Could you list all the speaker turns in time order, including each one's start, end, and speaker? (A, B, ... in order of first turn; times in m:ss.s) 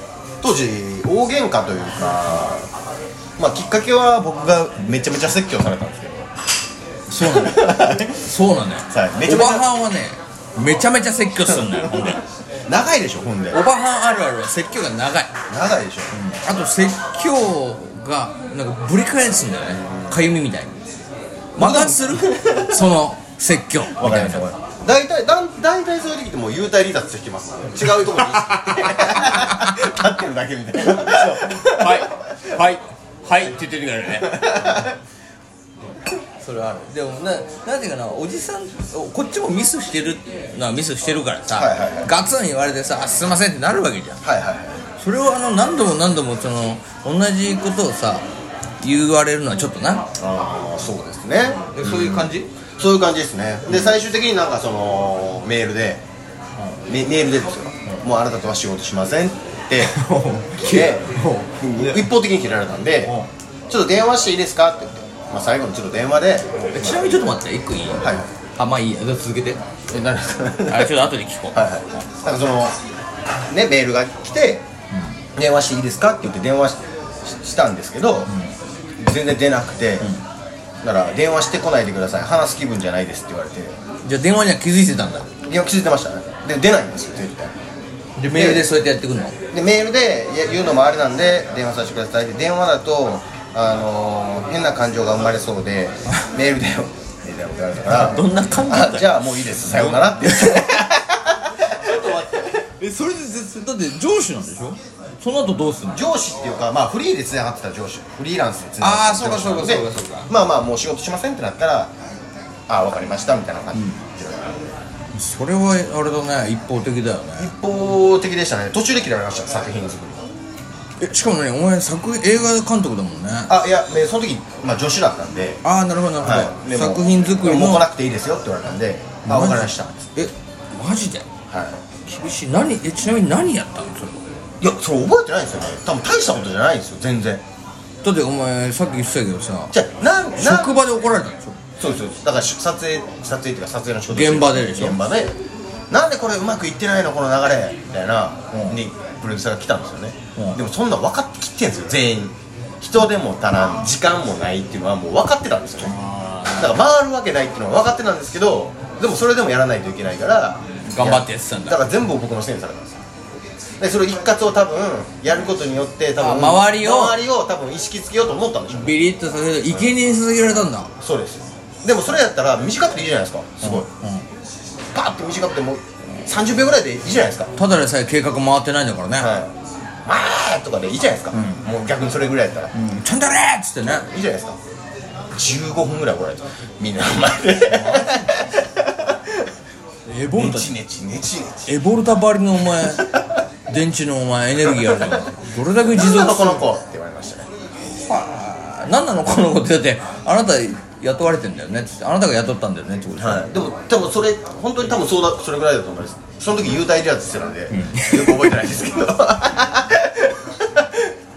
0:00.4-0:02.7 A
0:03.4-0:06.3 A
0:07.1-0:12.2 B
0:07.2-0:08.2 A
0:08.9-0:09.7 A
0:12.7-0:13.6 A
0:13.5-0:15.3 B
0:15.5-0:16.1 A
0:16.1-0:20.8 B
0:19.8-0:20.2 A
0:21.6-0:24.5 B
0:21.6-0:22.9 A
0:24.0-0:32.2 A
0:28.1-0:29.5 B
0:30.9-0:34.9 B
0:34.1-0:35.0 A
0:36.4-0:44.2 B
0:41.5-0:42.1 A
0:44.2-0:44.9 A
0:45.0-0:48.3 B
0:48.8-0:50.1 B
0:50.2-0:56.0 A
0:51.7-0:52.5 B
0:56.9-1:00.0 A
0:59.8-1:02.1 B
1:00.6-1:03.2 A
1:03.7-1:07.2 A
1:06.7-1:09.6 B
1:08.0-1:08.3 A
1:09.9-1:11.0 A
1:10.6-1:11.7 B
1:11.5-1:12.8 A
1:13.5-1:14.6 A
1:15.4-1:18.3 A
1:19.0-1:20.1 A
1:20.8-1:23.8 A
1:24.0-1:25.3 B
1:25.5-1:27.6 A
1:28.2-1:29.4 B
1:28.3-1:28.7 A
1:29.5-1:42.3 A
1:37.9-1:40.8 B
1:41.6-1:46.0 B
1:45.9-1:51.9 A
1:48.8-1:50.3 B
1:52.7-1:54.7 A
1:55.1-1:57.5 B
1:57.4-2:00.3 A
2:01.0-2:03.5 B
2:03.5-2:05.6 A
2:05.6-2:07.9 B
2:06.2-2:10.0 A
2:09.2-2:11.3 B
2:11.5-2:11.8 A
2:12.1-2:14.2 B
2:14.6-2:17.4 A
2:18.0-2:19.7 B
2:19.7-2:20.8 A
2:20.4-2:21.6 B
2:21.8-2:25.4 A
2:24.1-2:25.0 B
2:25.9-2:36.0 A
2:28.5-2:28.8 B
2:35.8-2:36.8 B
2:36.5-2:43.0 A
2:40.8-2:41.8 B
2:43.8-2:49.0 A
2:46.2-2:47.2 B
2:48.7-2:50.9 B
2:49.7-2:49.9 A
2:51.0-2:53.9 A
2:53.6-2:54.3 B
2:54.9-2:57.5 A
2:57.6-2:59.4 B
2:59.2-2:59.5 A
3:00.0-3:02.7 A
3:01.3-3:01.6 B
3:02.7-3:04.1 B
3:03.8-3:04.6 A
3:05.3-3:09.2 A
3:07.7-3:08.5 B
3:10.1-3:10.7 B
3:10.3-3:11.8 A
3:11.7-3:13.1 B
3:12.8-3:13.4 A
3:13.7-3:16.6 B
3:14.6-3:15.2 A
3:15.8-3:17.5 A
3:17.8-3:23.5 B
3:23.1-3:31.1 A
3:27.7-3:28.6 B